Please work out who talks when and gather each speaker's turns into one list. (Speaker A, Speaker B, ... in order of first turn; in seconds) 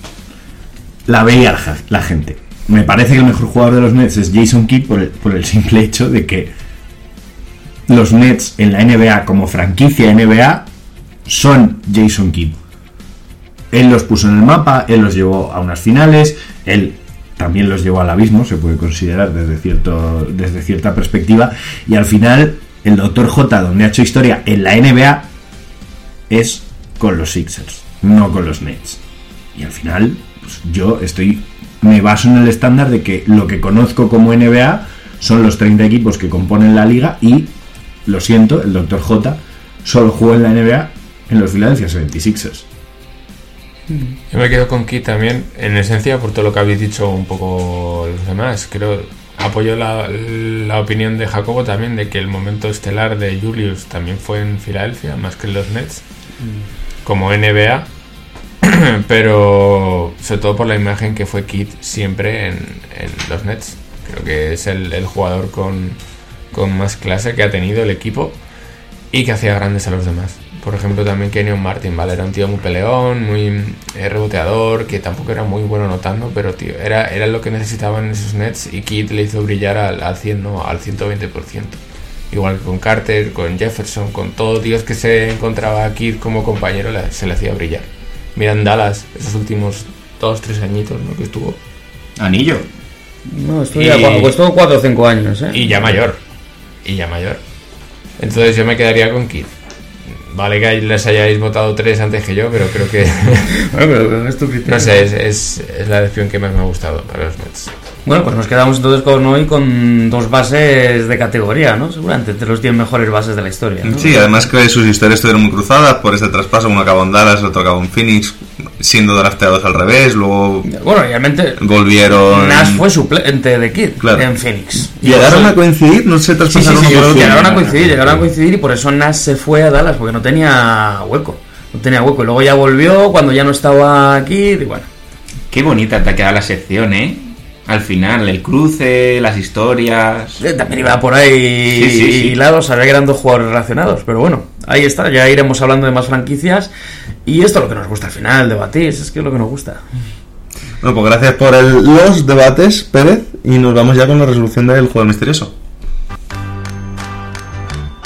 Speaker A: 1.1-6.5, 7.9-10.7, 11.3-12.6, 13.7-25.3, 26.3-29.0, 29.6-37.5, 38.0-42.7, 92.2-92.6, 126.7-128.2
Speaker B: 44.3-56.0, 57.0-57.9, 58.6-66.0, 66.5-68.4, 69.1-81.8, 82.3-91.6, 93.7-94.3, 95.5-96.2, 96.8-97.4, 98.2-99.5, 100.2-103.5, 104.7-107.7
Speaker C: 93.3-95.6, 103.6-105.1, 108.1-114.3, 120.7-121.6, 122.3-125.6, 126.5-134.9, 140.4-146.7, 147.3-149.8
Speaker D: 113.8-120.7, 121.6-122.8, 124.0-124.3, 125.0-127.7, 150.8-155.5
Speaker E: 135.5-140.4, 141.7-142.4